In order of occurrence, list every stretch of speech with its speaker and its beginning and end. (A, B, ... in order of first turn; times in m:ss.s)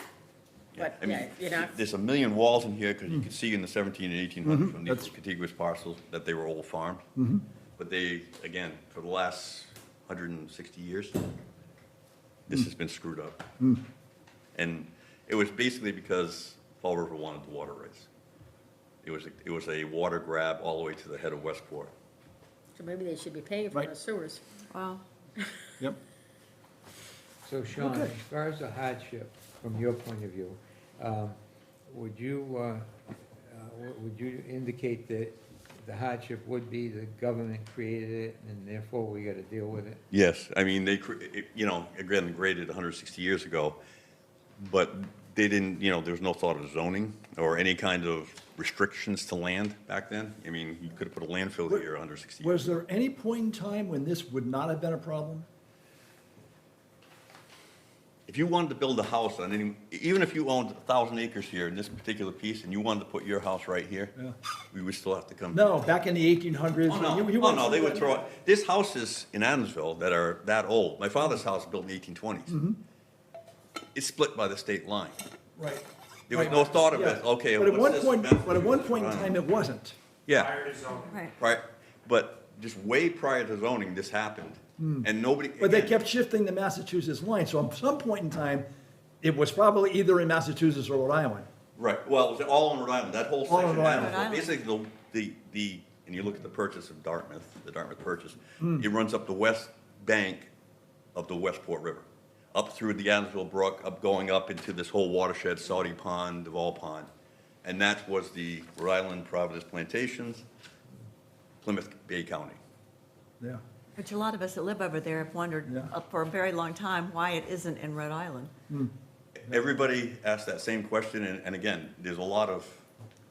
0:00.7-0:07.0 A
0:00.8-0:01.8 B
0:04.4-0:05.1 C
0:07.2-0:07.4 C
0:07.8-0:11.2 A
0:12.5-0:13.4 A
0:14.5-0:18.1 A
0:19.0-0:21.9 A
0:22.7-0:24.4 B
0:24.7-0:25.0 D
0:27.4-0:31.4 E
0:27.8-0:28.2 C
0:31.9-0:32.8 E
0:33.5-0:40.0 E
0:40.1-0:43.8 A
0:44.6-0:52.6 A
0:52.4-0:55.4 C
0:58.3-1:04.1 A
1:04.7-1:05.8 A
1:05.5-1:08.2 C
1:06.8-1:12.6 A
1:12.5-1:12.8 C
1:13.9-1:15.2 A
1:15.6-1:20.0 C
1:16.3-1:19.4 A
1:20.2-1:20.8 A
1:21.0-1:21.3 D
1:21.4-1:26.0 A
1:24.8-1:25.1 C
1:25.6-1:28.6 C
1:29.2-1:31.5 C
1:31.8-1:40.5 A
1:33.4-1:34.2 C
1:34.0-1:34.4 D
1:38.6-1:38.9 C
1:41.1-1:47.1 A
1:47.6-1:50.4 A
1:51.6-1:52.6 A
1:54.0-1:58.5 D
1:55.6-1:55.9 C
1:59.4-2:02.8 A